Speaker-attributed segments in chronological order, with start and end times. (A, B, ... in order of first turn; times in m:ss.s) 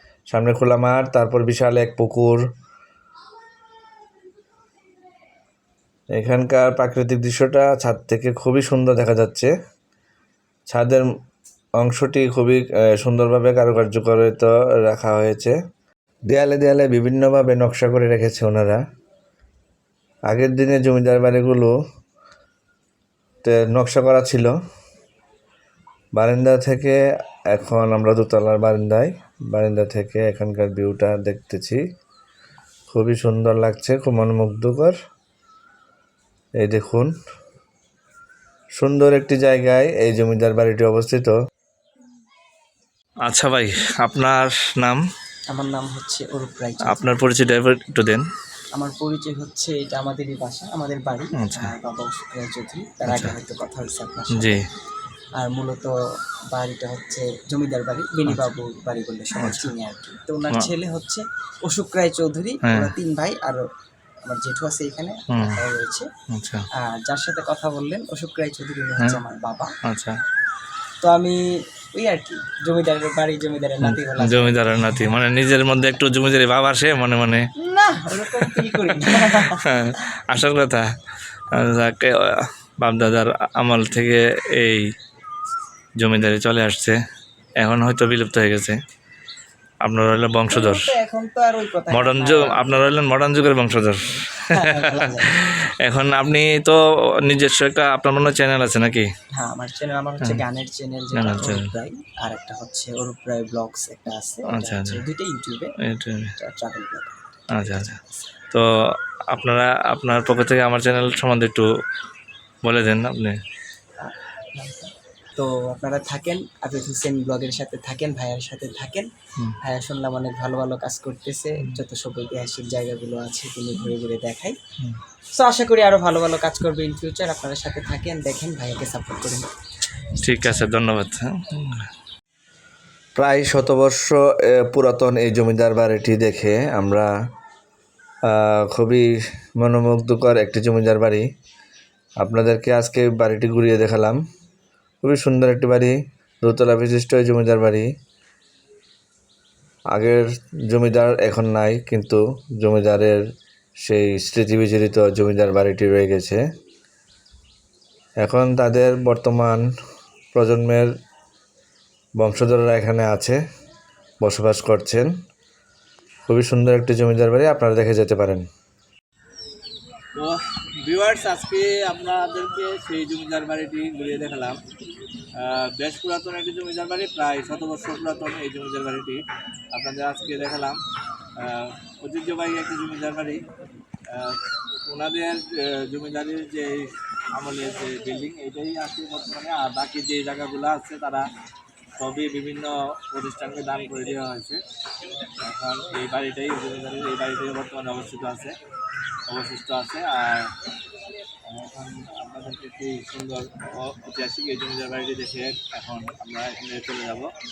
0:00.3-0:02.4 A
0:06.1-0:09.5 A
0:10.7-0:11.0 A
0:11.8-0:15.5 A
0:16.3-0:18.8 A
0:20.3-0:21.7 A
0:23.4-0:24.5 A
0:26.1-0:27.0 A
0:27.5-0:31.8 A
0:32.9-0:34.9 A
0:36.6-0:37.1 A
0:38.8-0:41.4 A
0:43.2-0:45.0 B
0:45.5-0:47.2 C
0:46.9-0:48.2 B
0:48.7-0:54.6 C
0:51.4-0:51.7 B
0:53.1-0:53.3 B
0:55.4-0:55.9 C
0:56.5-1:03.6 C
0:59.4-0:59.7 B
1:04.2-1:06.1 C
1:05.3-1:05.6 B
1:06.3-1:06.6 B
1:06.8-1:09.7 C
1:09.9-1:10.2 B
1:11.0-1:14.6 C
1:13.8-1:17.4 B
1:17.6-1:19.7 C
1:18.5-1:20.9 B
1:21.5-1:24.9 B
1:26.0-1:27.0 B
1:27.6-1:28.8 B
1:29.8-1:30.9 B
1:30.5-1:33.0 C
1:31.9-1:39.1 B
1:34.4-1:35.4 C
1:39.3-1:45.7 C
1:41.1-1:41.6 B
1:44.5-1:45.0 B
1:45.8-1:46.3 B
1:46.4-1:48.1 C
1:47.5-1:47.9 B
1:49.3-1:51.7 B
1:52.6-1:53.4 B
1:54.0-1:59.1 C
1:59.6-2:04.6 C
2:05.4-2:09.5 C
2:10.2-2:11.9 B
2:13.2-2:17.1 A
2:18.3-2:21.2 A
2:22.2-2:24.2 A
2:25.0-2:27.9 A
2:29.9-2:33.2 A
2:33.9-2:36.4 A
2:38.2-2:39.6 A
2:40.3-2:40.9 A
2:42.2-2:43.4 A
2:44.2-2:45.1 A
2:46.3-2:48.4 A
2:50.1-2:54.6 B
2:55.4-3:00.8 B
3:01.4-3:03.4 B
3:04.1-3:11.3 B
3:12.0-3:14.6 B
3:15.4-3:18.6 B
3:19.3-3:20.5 B
3:21.4-3:27.3 B